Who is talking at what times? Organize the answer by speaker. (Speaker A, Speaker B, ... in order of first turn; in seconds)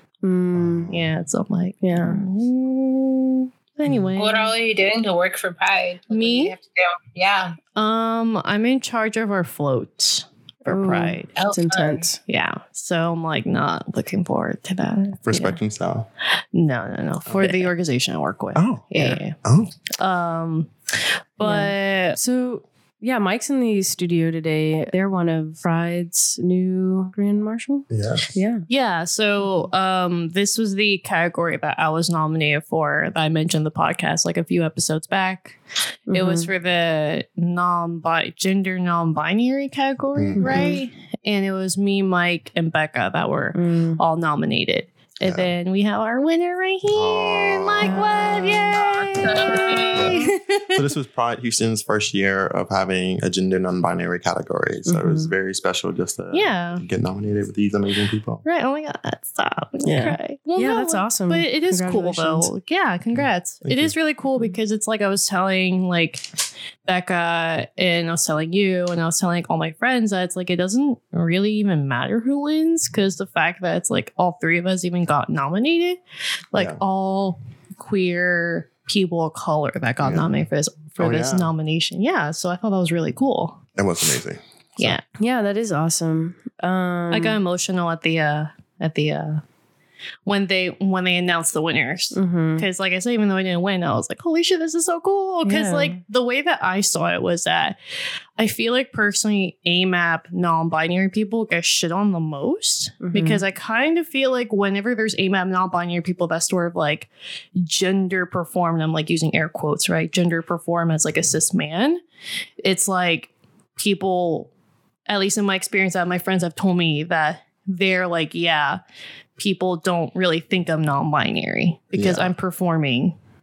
Speaker A: 0.2-0.9, 1.8-2.2, 10.7-12.2, 21.4-28.6, 36.1-36.5, 40.4-40.8, 43.5-44.0, 47.8-48.3, 54.9-55.3, 59.8-62.5, 85.2-87.4, 92.1-92.7, 95.4-96.0, 103.0-103.4
Speaker B: 0.5-1.1, 15.2-16.1, 17.2-17.7, 18.6-19.7, 27.9-28.3, 40.2-40.7, 45.2-45.5, 46.9-48.1, 49.9-50.2, 50.7-58.4, 63.2-63.9, 76.5-76.8, 80.0-80.3, 81.0-81.5, 83.8-85.0, 121.9-122.3
Speaker C: 0.9-4.5, 6.1-6.5, 7.7-11.3, 12.3-15.2, 16.5-19.4, 19.9-20.7, 21.4-22.2, 28.7-35.6, 36.1-50.9, 56.3-56.8, 58.4-66.3, 66.8-76.0, 76.5-83.6, 87.1-89.4, 90.2-97.8, 98.4-112.0, 112.6-114.5, 115.1-118.8, 119.4-123.2
Speaker D: 4.2-7.6, 11.3-12.0, 48.7-50.2